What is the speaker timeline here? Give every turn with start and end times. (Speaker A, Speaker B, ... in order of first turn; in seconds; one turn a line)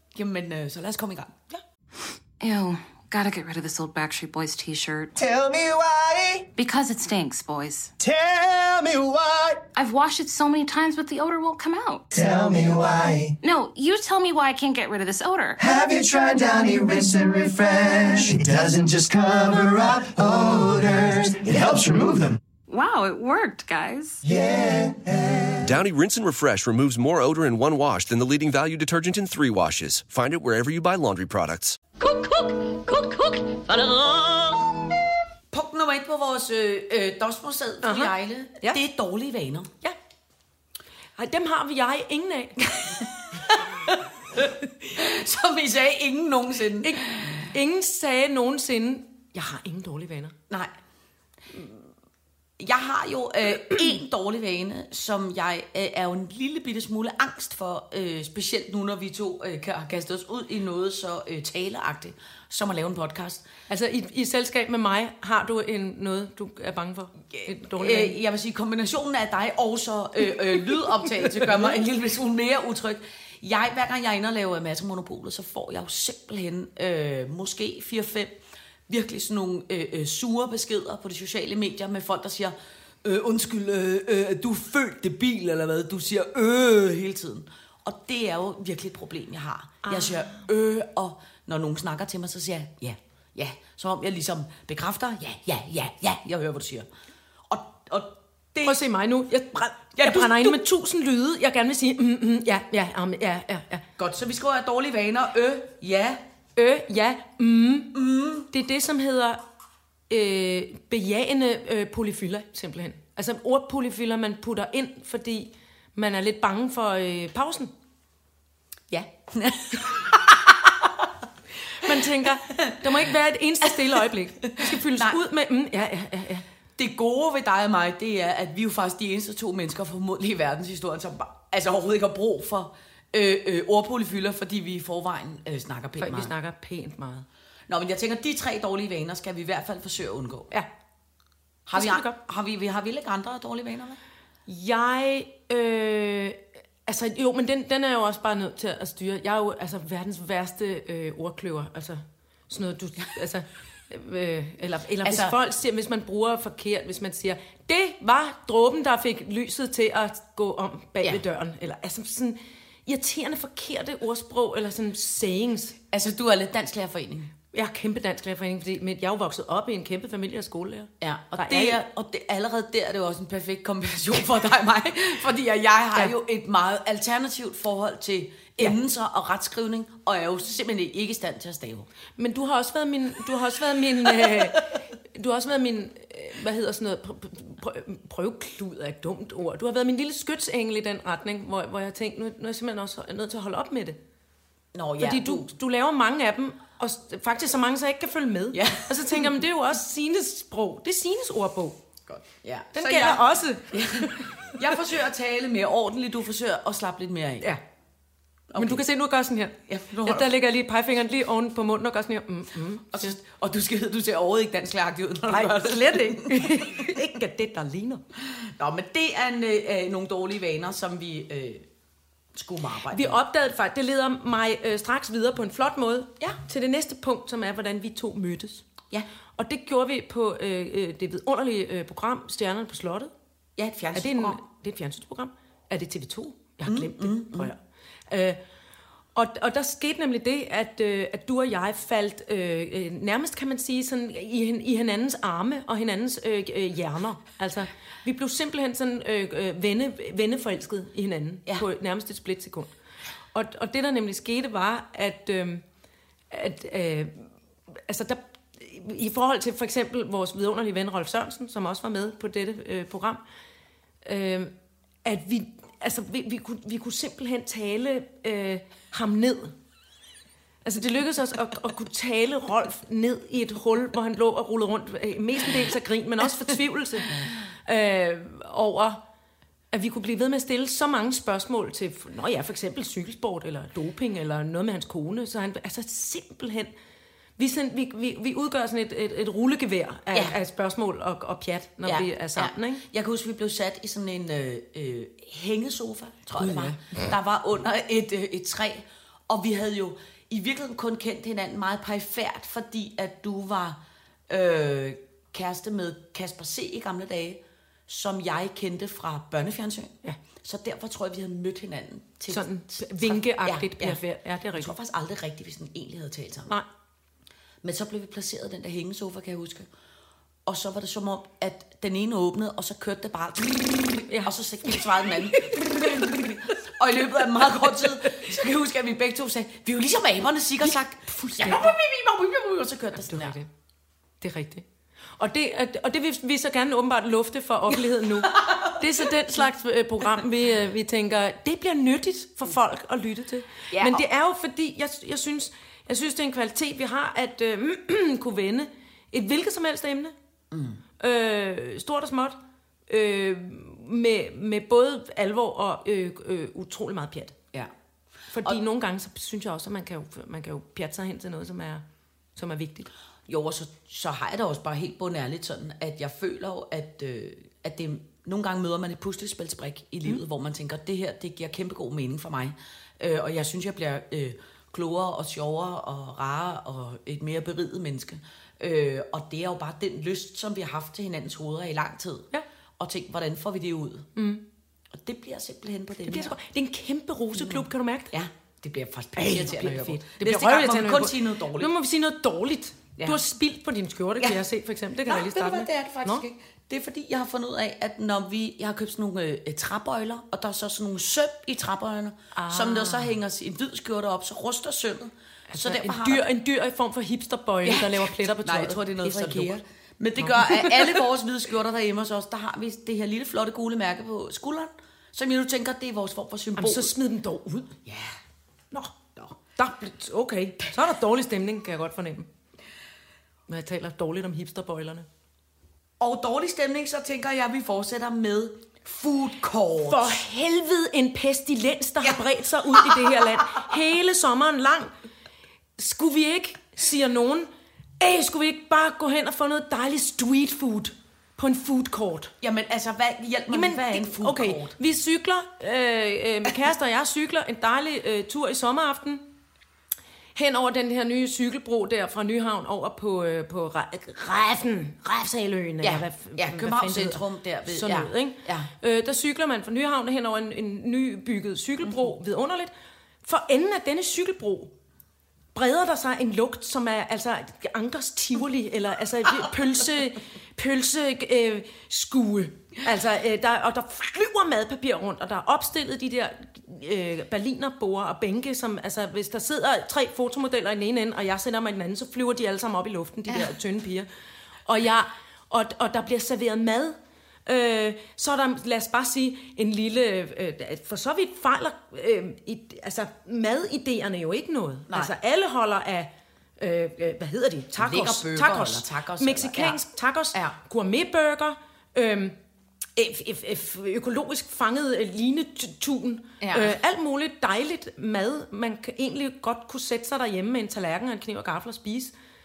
Speaker A: 0.1-1.4
Speaker B: 2.4-5.1
Speaker C: 5.2-6.5
Speaker B: 6.6-7.9
Speaker C: 8.0-9.7
Speaker B: 9.8-12.1
Speaker C: 12.1-13.4
Speaker B: 13.4-15.6
Speaker C: 15.6-22.4
Speaker B: 22.7-24.2
Speaker C: 24.2-25.7
Speaker D: 25.6-31.8
Speaker E: 32.0-34.7
Speaker A: 35.5-39.7
Speaker F: 37.8-38.8
Speaker F: 41.2-43.1
Speaker A: 43.5-47.5
Speaker F: 46.8-50.4
Speaker A: 51.4-51.9
Speaker A: 52.6-63.5
Speaker F: 63.7-68.2
Speaker A: 67.3-96.9
Speaker F: 70.7-71.7
Speaker F: 89.8-90.4
Speaker A: 97.5-98.8
Speaker F: 98.6-103.8
Speaker A: 100.0-100.6
Speaker A: 104.0-106.2
Speaker F: 106.6-108.0
Speaker A: 107.9-108.5
Speaker F: 108.5-109.4
Speaker F: 110.1-117.7
Speaker A: 119.3-121.1
Speaker F: 121.7-126.5
Speaker A: 122.5-122.8
Speaker A: 123.6-125.2
Speaker A: 126.8-136.3
Speaker F: 136.0-137.3
Speaker A: 137.7-140.5
Speaker A: 141.7-144.0
Speaker F: 141.7-142.2
Speaker F: 144.5-165.8
Speaker A: 155.0-155.4
Speaker A: 165.9-167.3
Speaker F: 167.5-171.8
Speaker A: 171.0-181.9
Speaker F: 182.2-194.0
Speaker A: 184.2-184.6
Speaker A: 194.7-195.5
Speaker F: 195.0-201.8
Speaker A: 198.5-199.3
Speaker A: 202.1-207.5
Speaker F: 202.7-204.6
Speaker A: 208.5-208.8
Speaker F: 208.6-213.2
Speaker A: 209.7-210.3
Speaker A: 212.9-216.9
Speaker F: 215.3-218.0
Speaker A: 218.2-221.7
Speaker A: 222.3-223.2
Speaker F: 222.9-228.7
Speaker F: 229.4-233.1
Speaker A: 233.6-234.4
Speaker F: 233.9-238.4
Speaker A: 236.7-237.5
Speaker F: 239.2-252.7
Speaker F: 253.3-255.6
Speaker F: 256.3-263.2
Speaker F: 264.0-269.6
Speaker F: 270.6-279.0
Speaker F: 279.7-286.7
Speaker F: 287.4-292.8
Speaker A: 291.9-314.0
Speaker F: 296.4-297.1
Speaker F: 312.3-314.7
Speaker A: 314.6-316.6
Speaker A: 317.6-319.7
Speaker A: 320.5-333.4
Speaker F: 324.1-326.3
Speaker F: 327.5-328.3
Speaker F: 331.4-331.8
Speaker F: 333.1-333.5
Speaker F: 334.2-334.6
Speaker F: 335.2-350.1
Speaker A: 338.2-339.4
Speaker A: 343.7-344.0
Speaker A: 350.5-350.8
Speaker F: 351.0-352.4
Speaker F: 352.9-357.4
Speaker F: 358.3-361.8
Speaker F: 362.4-362.9
Speaker A: 363.3-384.1
Speaker F: 384.2-384.4
Speaker A: 384.9-386.3
Speaker F: 386.1-388.1
Speaker A: 387.3-391.7
Speaker F: 389.2-396.2
Speaker A: 395.1-406.2
Speaker F: 402.4-403.1
Speaker F: 405.5-409.6
Speaker A: 407.6-416.9
Speaker F: 410.2-411.0
Speaker F: 416.6-417.8
Speaker A: 417.9-418.2
Speaker F: 419.6-422.3
Speaker F: 423.5-425.1
Speaker A: 426.0-430.2
Speaker F: 429.8-434.9
Speaker A: 432.7-433.6
Speaker F: 435.8-437.5
Speaker F: 438.0-442.3
Speaker A: 442.4-444.8
Speaker F: 443.5-449.2
Speaker F: 450.4-462.7
Speaker A: 455.8-458.7
Speaker F: 463.2-464.7
Speaker F: 465.6-484.1
Speaker F: 484.7-502.4
Speaker A: 494.9-495.1
Speaker A: 497.8-499.8
Speaker F: 503.0-512.1
Speaker A: 506.4-506.8